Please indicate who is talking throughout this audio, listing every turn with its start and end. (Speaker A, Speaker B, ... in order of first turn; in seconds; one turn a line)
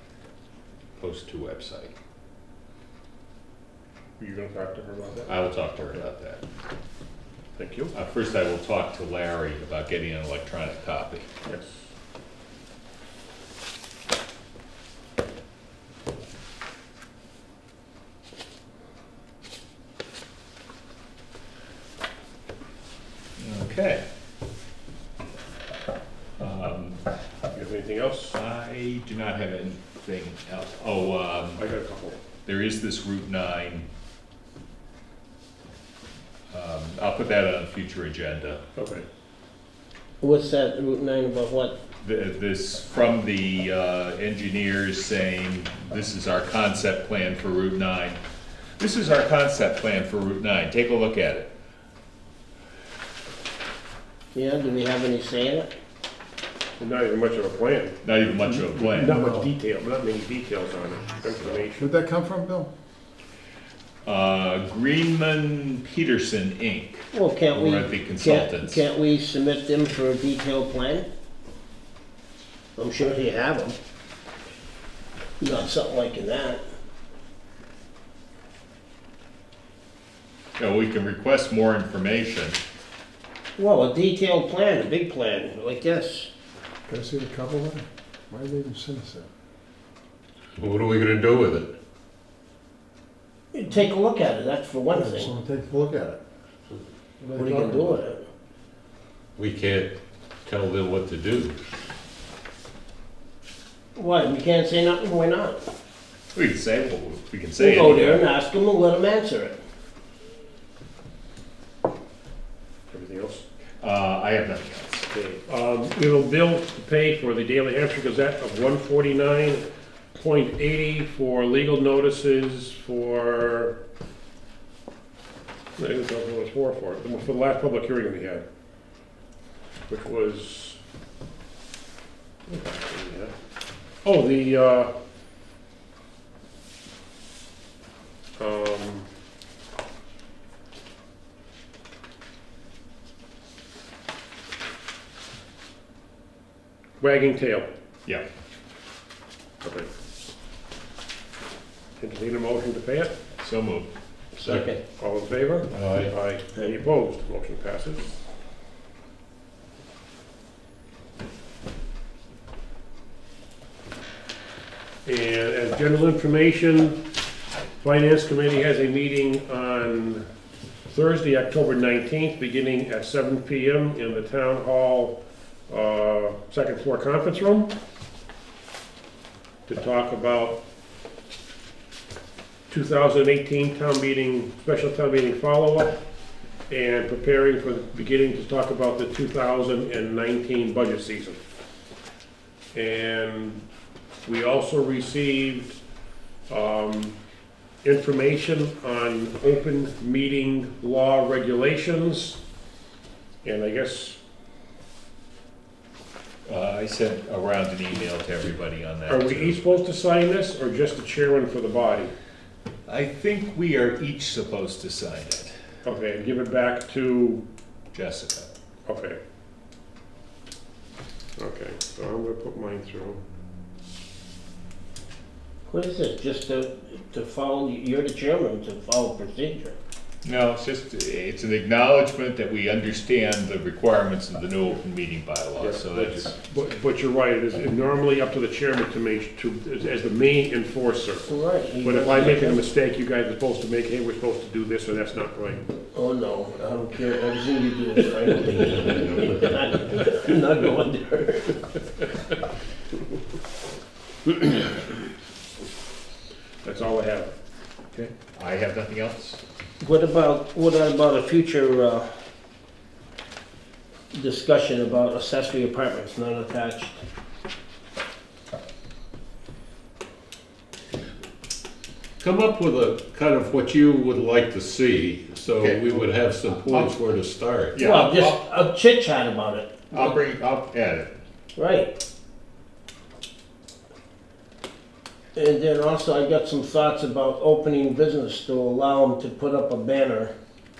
Speaker A: 1.0-1.9
Speaker B: 4.2-5.4
Speaker A: 5.3-6.4
Speaker B: 7.6-7.9
Speaker A: 7.9-11.3
Speaker B: 11.4-11.8
Speaker A: 23.4-24.1
Speaker A: 26.4-27.0
Speaker B: 27.5-28.4
Speaker A: 28.3-31.6
Speaker B: 31.6-32.2
Speaker A: 32.5-33.9
Speaker A: 36.5-38.6
Speaker B: 38.8-39.1
Speaker C: 40.2-41.8
Speaker A: 42.0-48.2
Speaker A: 48.8-51.5
Speaker C: 54.3-55.7
Speaker B: 56.8-61.9
Speaker A: 58.0-59.1
Speaker D: 59.0-59.5
Speaker D: 61.8-62.7
Speaker A: 64.0-68.8
Speaker C: 67.1-71.1
Speaker C: 72.8-73.8
Speaker C: 75.4-76.6
Speaker A: 80.6-82.6
Speaker C: 83.6-86.3
Speaker D: 86.9-89.3
Speaker E: 90.6-91.7
Speaker C: 93.5-95.3
Speaker D: 94.9-96.2
Speaker D: 97.2-98.0
Speaker C: 97.3-98.2
Speaker E: 99.4-101.5
Speaker C: 104.0-105.7
Speaker A: 106.3-108.3
Speaker C: 107.6-109.6
Speaker B: 112.9-113.4
Speaker A: 113.8-115.1
Speaker B: 115.1-123.8
Speaker B: 125.8-128.4
Speaker B: 129.9-130.8
Speaker B: 132.5-133.3
Speaker B: 134.0-134.9
Speaker B: 138.4-139.1
Speaker B: 147.0-147.7
Speaker B: 149.6-149.9
Speaker B: 152.0-153.2
Speaker A: 153.4-153.9
Speaker C: 154.4-154.8
Speaker E: 154.4-154.8
Speaker B: 155.0-158.1
Speaker E: 155.7-156.1
Speaker B: 165.1-167.0
Speaker B: 167.8-170.3
Speaker B: 170.9-175.2
Speaker B: 175.7-177.7
Speaker B: 179.7-180.6
Speaker B: 182.7-186.0
Speaker B: 186.7-191.4
Speaker B: 192.7-193.6
Speaker B: 194.3-195.7
Speaker B: 196.5-197.2
Speaker B: 197.8-202.4
Speaker B: 203.4-204.2
Speaker A: 206.5-209.8
Speaker B: 209.1-212.1
Speaker A: 212.9-215.6
Speaker B: 215.8-217.4
Speaker A: 217.9-218.5
Speaker B: 218.9-219.2
Speaker B: 221.4-223.2
Speaker C: 225.7-229.8
Speaker A: 230.2-236.3
Speaker B: 235.6-245.7
Speaker C: 241.2-242.6
Speaker C: 245.9-251.6
Speaker B: 254.4-254.7
Speaker B: 256.6-257.3
Speaker A: 257.9-259.4
Speaker C: 259.8-262.1
Speaker C: 264.1-267.0
Speaker E: 272.2-277.9
Speaker A: 275.6-275.9
Speaker A: 276.7-277.0
Speaker A: 277.7-278.4
Speaker C: 277.8-280.2
Speaker A: 279.9-281.2
Speaker C: 281.6-281.9
Speaker C: 285.4-290.3